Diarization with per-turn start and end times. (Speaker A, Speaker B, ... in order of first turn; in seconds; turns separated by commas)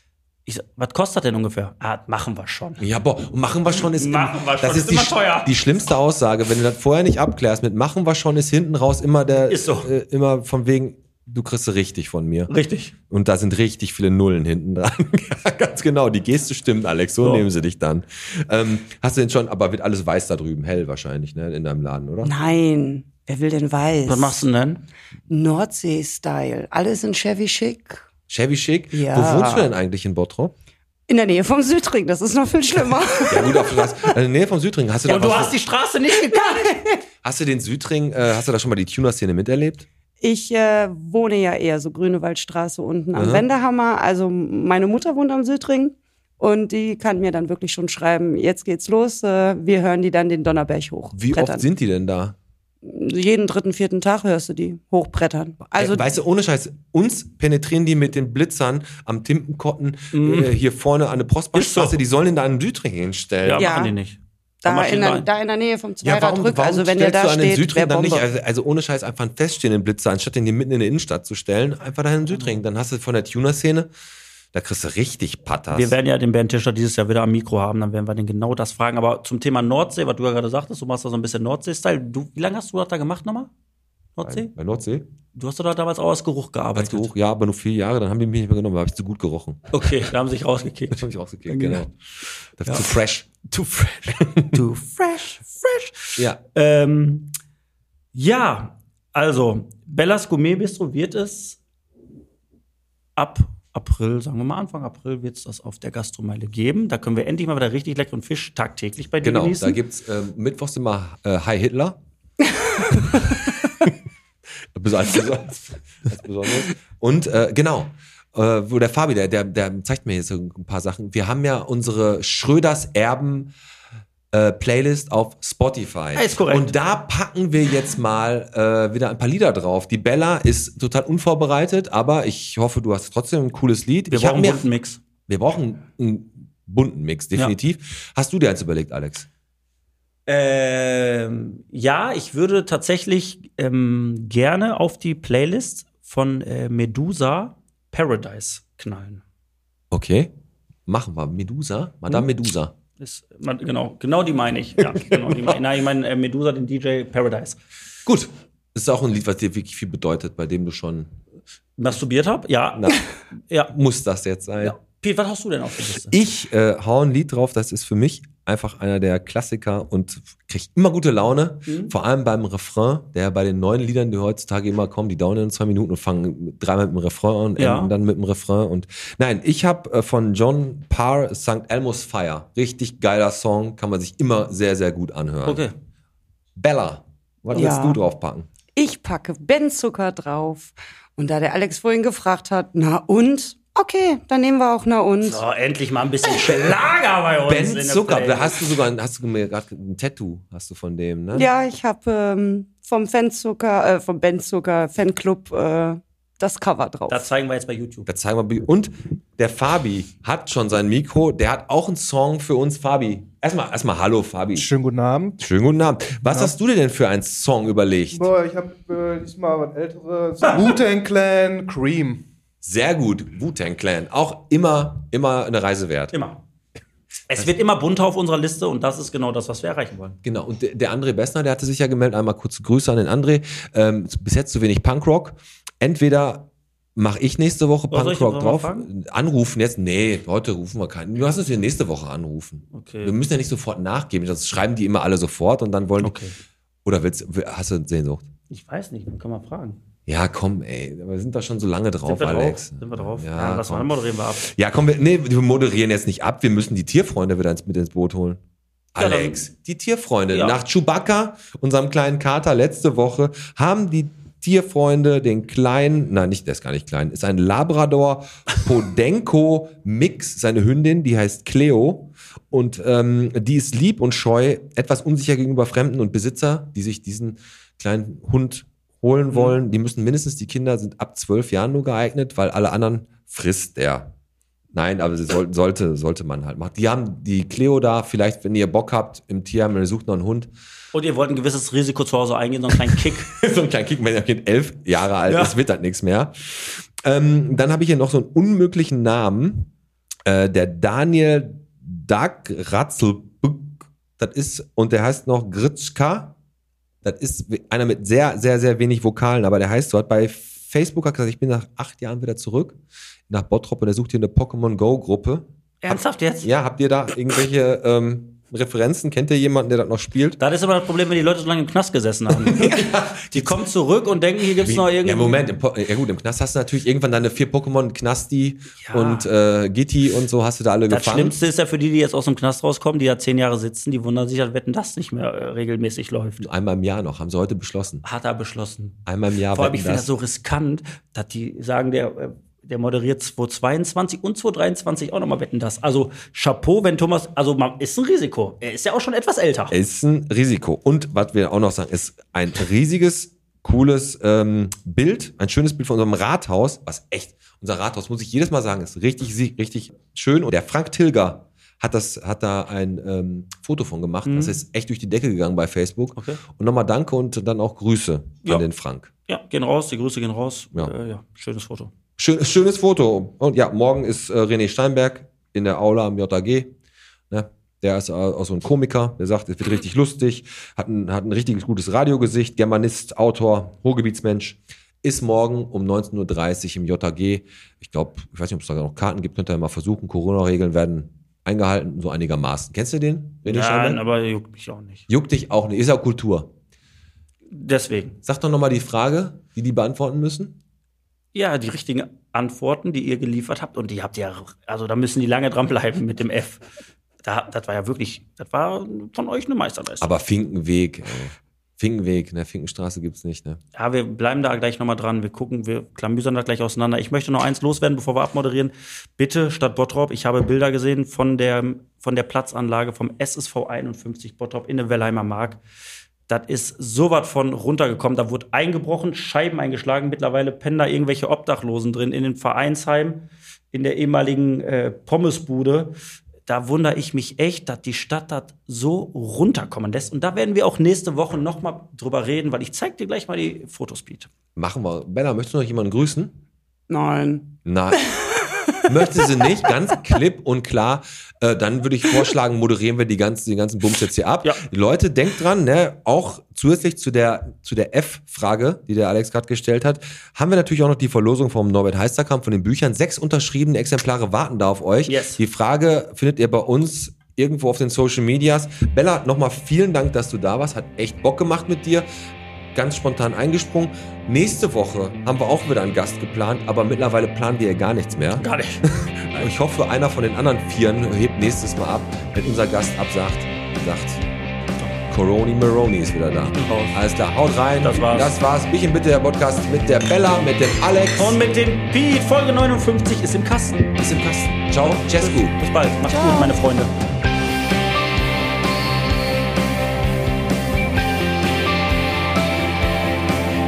Speaker A: 0.5-2.9, Speaker B: 2.8-12.5, Speaker A: 3.7-5.6, Speaker A: 9.5-9.9, Speaker A: 12.5-12.9, Speaker B: 13.1-22.3, Speaker A: 17.2-17.5, Speaker C: 22.2-24.4, Speaker A: 24.1-24.8, Speaker C: 25.3-28.1, Speaker B: 28.3-30.5, Speaker C: 28.9-29.7, Speaker C: 31.1-34.1, Speaker B: 33.3-35.6, Speaker A: 35.0-36.8, Speaker C: 36.5-36.9, Speaker B: 37.2-39.9, Speaker C: 40.2-51.6, Speaker B: 43.2-43.5, Speaker B: 51.1-52.4, Speaker C: 52.9-56.1, Speaker B: 55.6-63.7, Speaker A: 60.1-60.5, Speaker A: 61.5-62.0, Speaker A: 63.4-65.3, Speaker C: 63.5-64.0, Speaker C: 64.6-68.2, Speaker B: 66.0-73.9, Speaker B: 74.5-76.0, Speaker A: 75.7-83.5, Speaker A: 84.2-84.5, Speaker B: 84.2-85.1, Speaker A: 85.3-87.1, Speaker B: 86.8-89.9, Speaker A: 89.7-91.9, Speaker B: 90.9-91.9, Speaker B: 92.6-93.5, Speaker A: 92.7-92.9, Speaker A: 93.5-97.3, Speaker B: 94.2-94.6, Speaker A: 98.1-101.6, Speaker A: 103.2-109.8, Speaker B: 109.2-112.0, Speaker B: 112.9-113.9, Speaker B: 114.7-123.5, Speaker B: 124.3-134.7, Speaker A: 126.2-126.8, Speaker A: 134.1-135.0, Speaker B: 135.3-139.3, Speaker A: 140.3-149.2, Speaker B: 149.9-150.3, Speaker B: 150.9-152.7, Speaker A: 153.0-157.6, Speaker B: 154.9-155.5, Speaker B: 158.1-161.1, Speaker A: 161.8-163.7, Speaker B: 162.8-163.0, Speaker B: 163.7-164.8, Speaker A: 164.6-166.2, Speaker B: 166.1-185.7, Speaker A: 171.7-171.9, Speaker A: 177.6-177.9, Speaker A: 185.4-185.8, Speaker B: 186.6-188.5, Speaker C: 187.5-188.0, Speaker C: 188.8-195.4, Speaker A: 195.2-198.6, Speaker B: 197.5-201.5, Speaker C: 201.3-207.3, Speaker A: 207.1-208.1, Speaker B: 208.1-214.7, Speaker D: 214.6-215.5, Speaker B: 215.4-218.3, Speaker D: 216.2-216.5, Speaker D: 218.1-222.2, Speaker B: 222.6-226.1, Speaker A: 226.1-226.4, Speaker A: 227.3-230.2, Speaker B: 230.2-246.2, Speaker A: 237.9-238.9, Speaker A: 242.7-243.2, Speaker A: 246.0-246.4, Speaker B: 246.8-248.3, Speaker A: 248.5-249.8, Speaker B: 250.1-253.9, Speaker A: 252.1-254.5, Speaker B: 254.4-258.4, Speaker B: 258.9-284.1, Speaker A: 259.0-259.5, Speaker A: 260.3-260.6, Speaker A: 279.3-279.6, Speaker B: 284.7-290.5, Speaker A: 290.9-293.3, Speaker B: 292.9-299.7, Speaker A: 295.3-295.6, Speaker B: 300.2-306.4, Speaker B: 307.0-312.8, Speaker B: 313.3-320.4, Speaker A: 315.8-316.5, Speaker A: 320.4-325.4, Speaker B: 322.3-323.6, Speaker B: 324.6-331.4, Speaker A: 328.8-329.3, Speaker A: 330.9-336.5, Speaker B: 336.4-338.0, Speaker A: 338.0-349.8, Speaker B: 339.1-340.1, Speaker B: 349.7-369.1, Speaker A: 364.2-364.6, Speaker A: 369.3-371.9, Speaker B: 372.2-376.7, Speaker B: 377.3-394.0, Speaker A: 393.5-395.1, Speaker B: 395.1-396.5, Speaker A: 397.5-398.2, Speaker B: 398.2-400.6, Speaker A: 401.3-406.6, Speaker A: 407.2-410.1, Speaker B: 410.0-413.6, Speaker A: 413.8-425.6, Speaker A: 426.3-435.9, Speaker A: 436.5-444.3, Speaker B: 444.6-446.4, Speaker C: 446.9-449.2, Speaker B: 447.7-448.1, Speaker B: 448.9-472.1, Speaker A: 465.1-465.4, Speaker B: 472.7-484.2, Speaker A: 478.4-479.4, Speaker B: 485.1-491.4, Speaker A: 486.5-487.0, Speaker A: 487.8-488.3, Speaker A: 491.1-494.0, Speaker B: 494.0-495.6, Speaker A: 494.8-496.9, Speaker C: 496.1-496.5